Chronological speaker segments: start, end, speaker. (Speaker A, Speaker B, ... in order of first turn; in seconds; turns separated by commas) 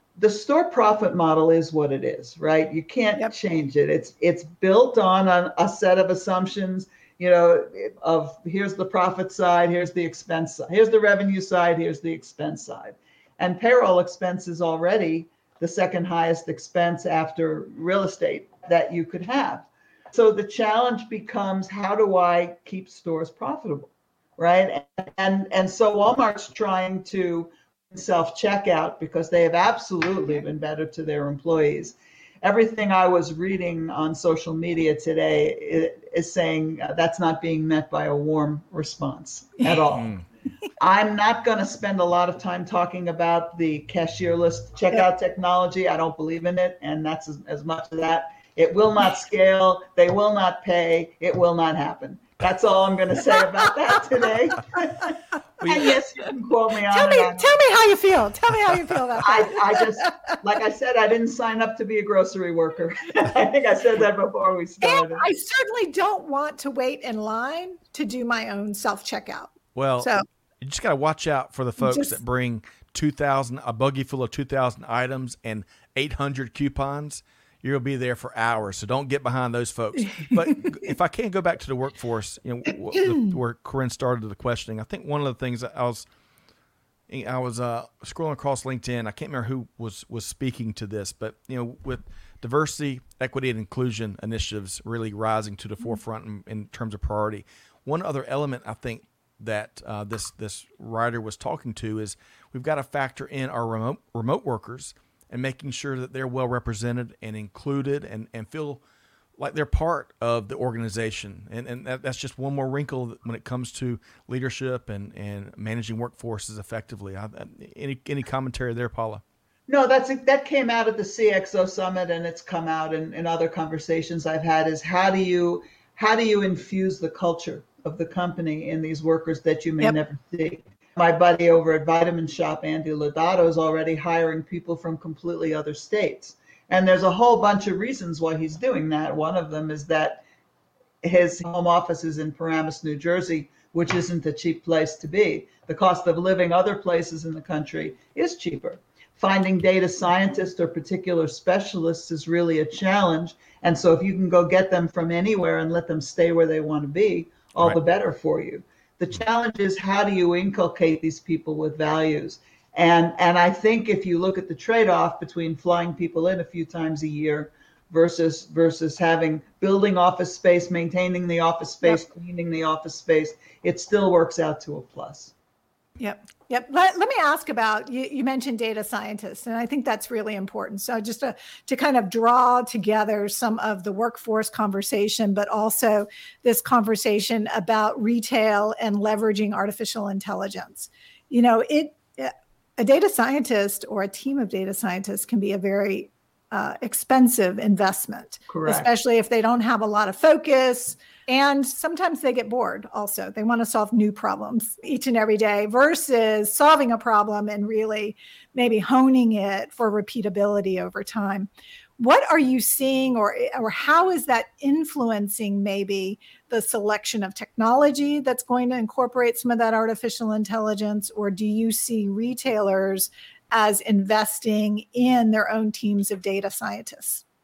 Speaker A: 0.2-40.2, Speaker B: 39.9-40.2, Speaker A: 40.8-57.5, Speaker C: 56.9-60.2, Speaker A: 59.2-65.2, Speaker C: 64.8-70.2, Speaker B: 69.7-86.0, Speaker C: 71.8-72.2, Speaker C: 80.3-80.7, Speaker B: 87.1-108.8, Speaker B: 109.4-119.2, Speaker A: 119.7-140.2, Speaker A: 141.0-175.3, Speaker C: 176.0-227.2, Speaker A: 198.5-198.9